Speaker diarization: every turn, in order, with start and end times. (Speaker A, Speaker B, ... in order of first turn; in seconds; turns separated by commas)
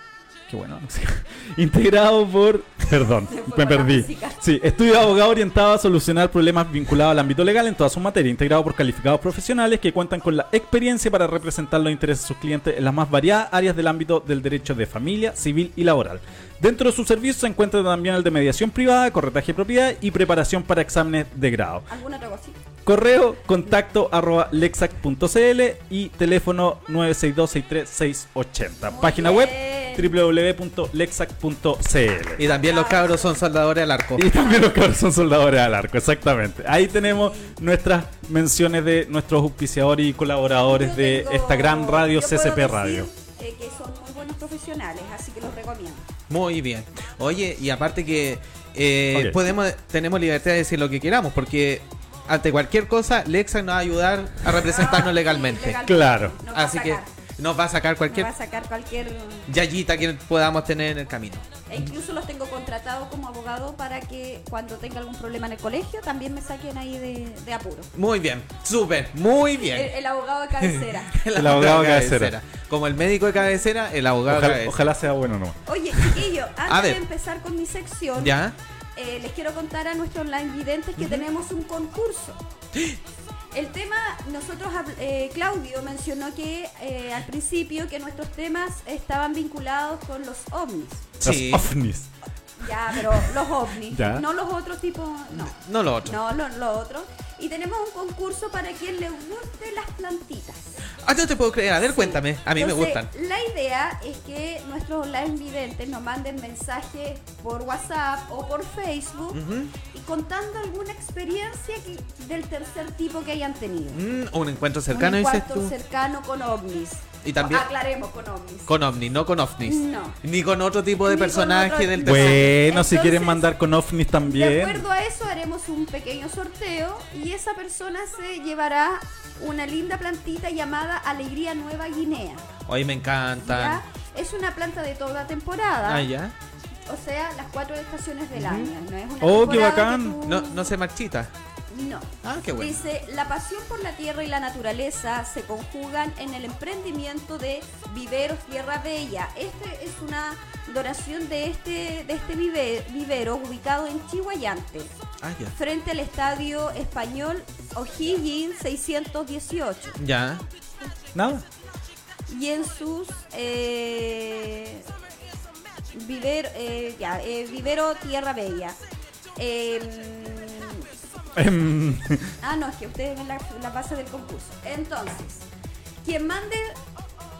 Speaker A: 0.5-21.9, Speaker B: 3.3-4.9, Speaker B: 21.9-22.6, Speaker A: 22.8-32.4, Speaker B: 28.9-30.1, Speaker C: 32.4-34.3, Speaker B: 32.4-33.4, Speaker A: 34.1-43.1, Speaker B: 37.0-37.5, Speaker B: 40.6-46.0, Speaker C: 46.3-55.8, Speaker A: 49.1-49.4, Speaker B: 54.6-57.1, Speaker A: 55.8-56.4, Speaker C: 56.5-58.3, Speaker B: 58.1-59.5, Speaker C: 59.5-61.5, Speaker B: 61.7-67.9, Speaker C: 67.9-69.9, Speaker B: 69.5-71.2, Speaker C: 70.6-74.9, Speaker A: 71.3-72.3, Speaker A: 74.3-75.6, Speaker B: 75.7-78.4, Speaker C: 76.7-77.0, Speaker C: 78.2-78.5, Speaker B: 79.0-82.4, Speaker C: 81.0-81.2, Speaker B: 83.5-91.2, Speaker C: 91.2-91.7, Speaker A: 91.2-92.1, Speaker B: 92.6-100.7, Speaker A: 92.9-93.3, Speaker A: 93.9-94.2, Speaker C: 95.3-96.2, Speaker C: 101.0-103.1, Speaker B: 101.8-114.1, Speaker C: 109.3-109.7, Speaker C: 113.9-115.7, Speaker B: 114.9-118.7, Speaker C: 117.2-117.7, Speaker C: 118.7-122.5, Speaker B: 119.6-120.2, Speaker B: 121.0-123.5, Speaker A: 122.0-124.8, Speaker B: 124.2-132.4, Speaker C: 132.7-133.8, Speaker B: 133.4-136.1, Speaker C: 135.8-136.3, Speaker B: 136.9-140.7, Speaker C: 138.3-138.7, Speaker A: 139.2-140.2, Speaker C: 140.2-141.3, Speaker B: 141.7-154.9, Speaker C: 142.2-142.8, Speaker C: 155.2-155.5, Speaker B: 155.5-160.0, Speaker C: 160.0-160.4, Speaker A: 161.1-161.4, Speaker B: 162.3-164.9, Speaker B: 165.9-168.8, Speaker B: 169.4-170.9, Speaker A: 171.4-172.3, Speaker B: 172.4-175.5, Speaker B: 176.0-176.8